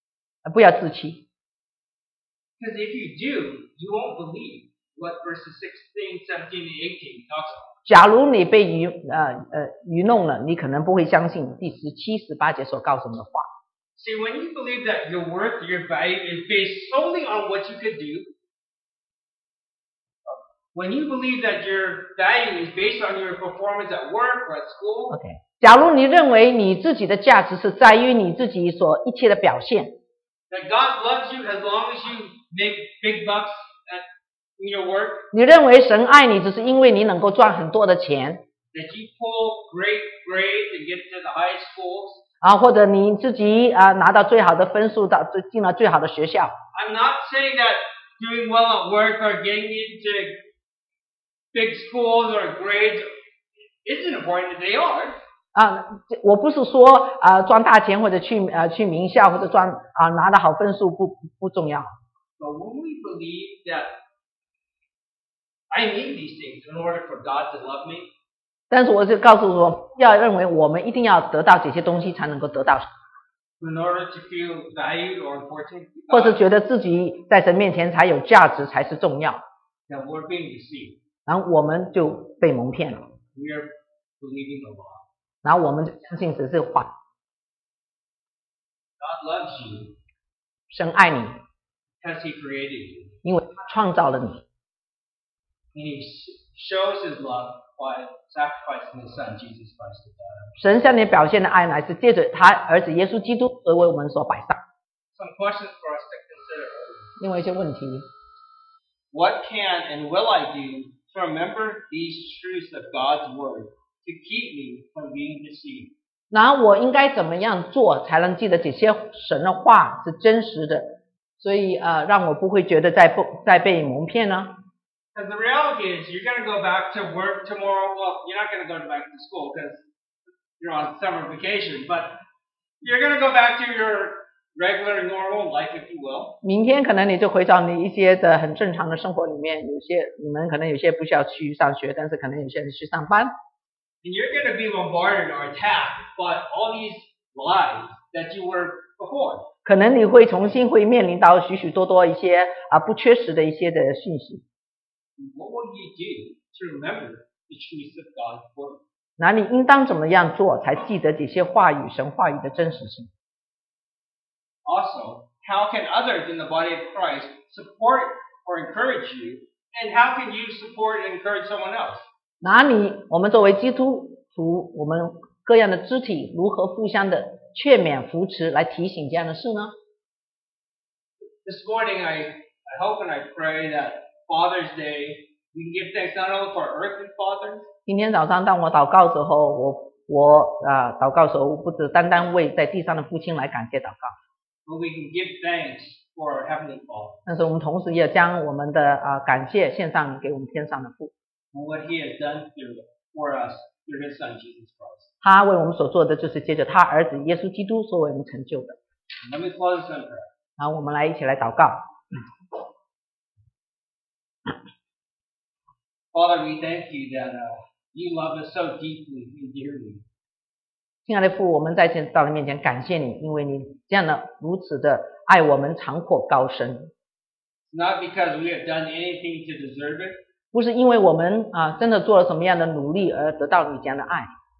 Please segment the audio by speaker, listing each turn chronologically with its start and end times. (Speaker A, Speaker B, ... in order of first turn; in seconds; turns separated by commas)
Speaker A: 0.4-1.2, Speaker B: 2.6-7.7, Speaker A: 7.8-13.5, Speaker B: 13.9-18.3, Speaker B: 20.3-25.1, Speaker A: 25.1-30.0, Speaker B: 30.5-34.0, Speaker B: 34.6-35.3, Speaker A: 35.3-38.4, Speaker B: 38.7-42.2, Speaker A: 42.4-46.5, Speaker B: 46.7-50.4, Speaker B: 51.5-53.1, Speaker B: 53.8-55.2, Speaker A: 55.5-61.9, Speaker B: 62.4-64.0, Speaker B: 65.7-68.1, Speaker A: 68.7-72.9, Speaker B: 73.6-76.4, Speaker A: 76.1-79.4, Speaker B: 79.9-81.0, Speaker A: 81.2-83.1, Speaker B: 83.3-85.0, Speaker A: 85.4-86.9, Speaker B: 89.0-90.0, Speaker A: 90.7-91.4, Speaker B: 92.0-93.2, Speaker A: 93.2-94.4, Speaker B: 95.7-100.5, Speaker A: 100.6-104.6, Speaker B: 105.1-107.2, Speaker A: 107.2-108.1, Speaker B: 109.1-115.9, Speaker A: 116.3-124.5, Speaker B: 125.1-129.8, Speaker B: 130.6-132.2, Speaker B: 132.8-136.4, Speaker A: 136.4-143.3, Speaker B: 144.0-149.5, Speaker A: 149.6-154.4, Speaker B: 155.2-158.8, Speaker A: 159.2-163.1, Speaker B: 164.6-172.1, Speaker A: 172.4-179.7, Speaker B: 181.4-187.7, Speaker A: 187.8-194.1, Speaker B: 194.7-197.2, Speaker A: 197.2-201.1, Speaker B: 201.5-205.1, Speaker A: 205.2-208.8, Speaker B: 209.2-210.3, Speaker A: 210.6-212.0, Speaker B: 216.1-220.0, Speaker A: 221.1-226.9, Speaker B: 227.7-230.2, Speaker A: 230.5-234.3